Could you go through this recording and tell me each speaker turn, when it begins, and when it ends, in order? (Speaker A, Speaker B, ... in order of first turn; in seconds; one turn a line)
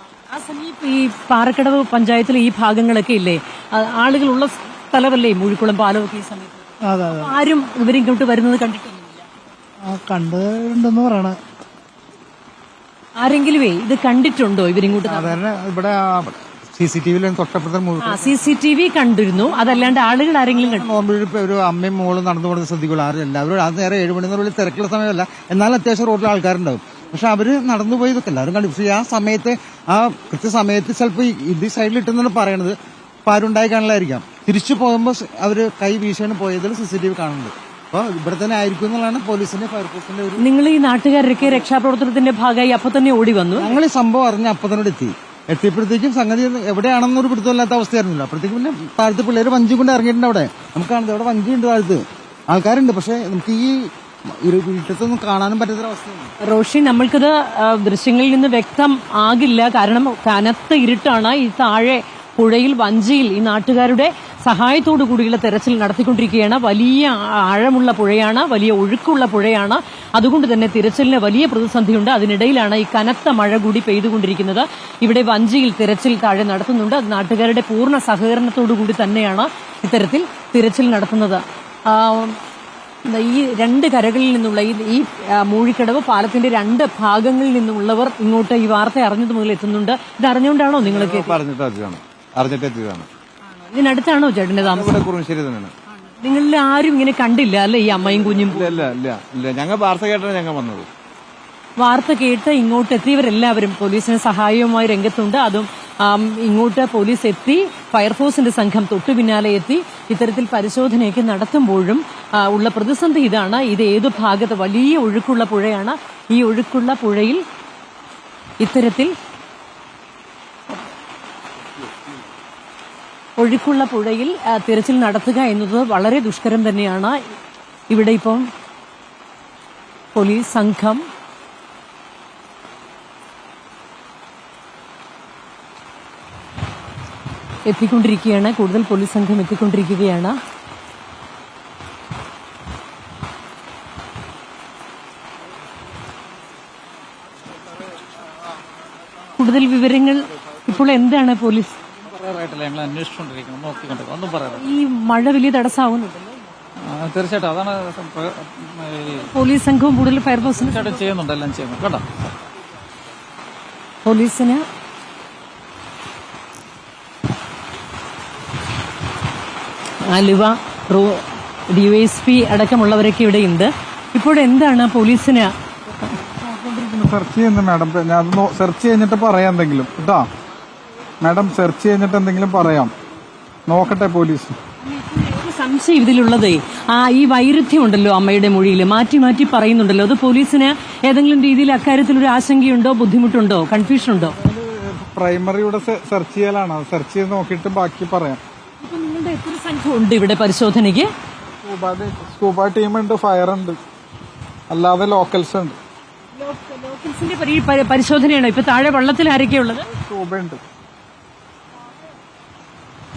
Speaker A: 0.2-9.2
Speaker B: 6.9-7.3
Speaker B: 9.8-11.4
Speaker A: 13.2-15.4
Speaker C: 15.0-18.5
Speaker A: 18.0-20.9
Speaker C: 20.5-40.5
Speaker A: 40.4-43.7
Speaker C: 43.6-56.3
Speaker A: 56.4-82.4
Speaker A: 83.0-91.3
Speaker D: 90.8-93.1
Speaker A: 93.5-95.0
Speaker D: 94.6-95.7
Speaker A: 96.0-98.9
Speaker D: 98.0-100.9
Speaker A: 101.8-117.4
Speaker A: 118.6-119.1
Speaker A: 123.4-127.2
Speaker A: 127.9-128.5
Speaker A: 130.2-131.1
Speaker A: 137.7-140.4
Speaker A: 149.4-151.7
Speaker E: 152.0-154.6
Speaker A: 154.6-156.4
Speaker E: 156.9-159.3
Speaker A: 159.1-161.0
Speaker E: 160.4-162.1
Speaker A: 164.0-164.6
Speaker A: 170.0-175.5
Speaker F: 176.1-180.3
Speaker F: 181.2-182.9
Speaker F: 183.7-184.6
Speaker A: 184.8-194.4
Speaker F: 194.2-198.4
Speaker A: 198.8-201.1
Speaker F: 201.6-203.8
Speaker F: 204.7-205.8
Speaker A: 206.3-209.9
Speaker F: 209.9-210.6